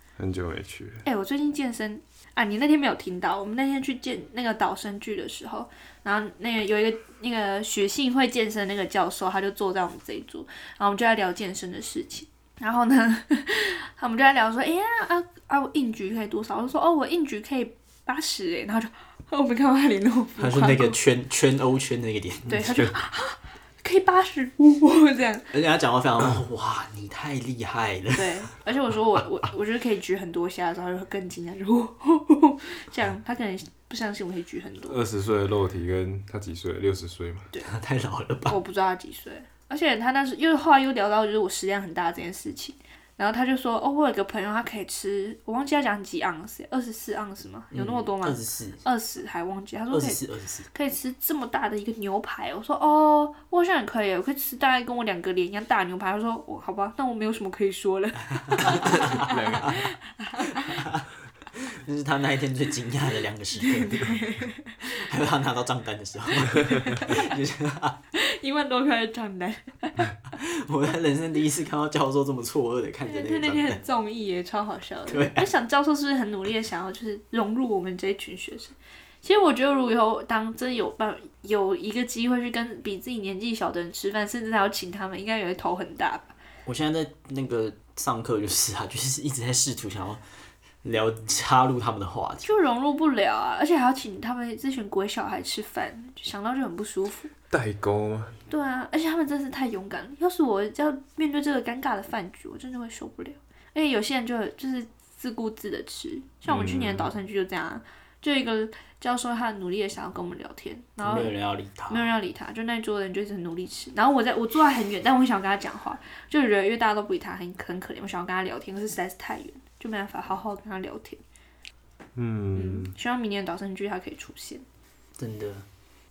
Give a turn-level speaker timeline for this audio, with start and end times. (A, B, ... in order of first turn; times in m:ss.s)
0:00.2-0:01.0 A
0:01.0-0:21.0 B
0:20.4-0:22.9 C
0:22.5-0:25.5 B
0:25.5-0:28.4 C
0:28.1-0:35.0 B
0:34.8-0:37.5 A
0:37.6-0:38.6 C
0:38.5-1:00.8 B
0:47.7-0:48.8 C
0:49.9-0:50.7 C
0:58.5-0:59.8 C
0:58.8-0:59.8 A
1:00.5-1:04.3 C
1:03.6-1:04.8 B
1:04.8-1:08.0 C
1:06.6-1:07.3 B
1:08.1-1:10.1 B
1:10.3-1:13.8 C
1:13.0-1:26.3 B
1:15.1-1:15.5 C
1:26.6-1:30.2 C
1:30.8-1:32.5 C
1:32.4-1:37.3 B
1:37.5-1:38.4 A
1:38.5-1:51.3 B
1:46.5-1:47.1 A
1:51.0-1:52.1 C
1:51.9-2:01.2 B
2:02.2-2:02.9 A
2:02.5-2:04.6 B
2:05.2-2:05.6 C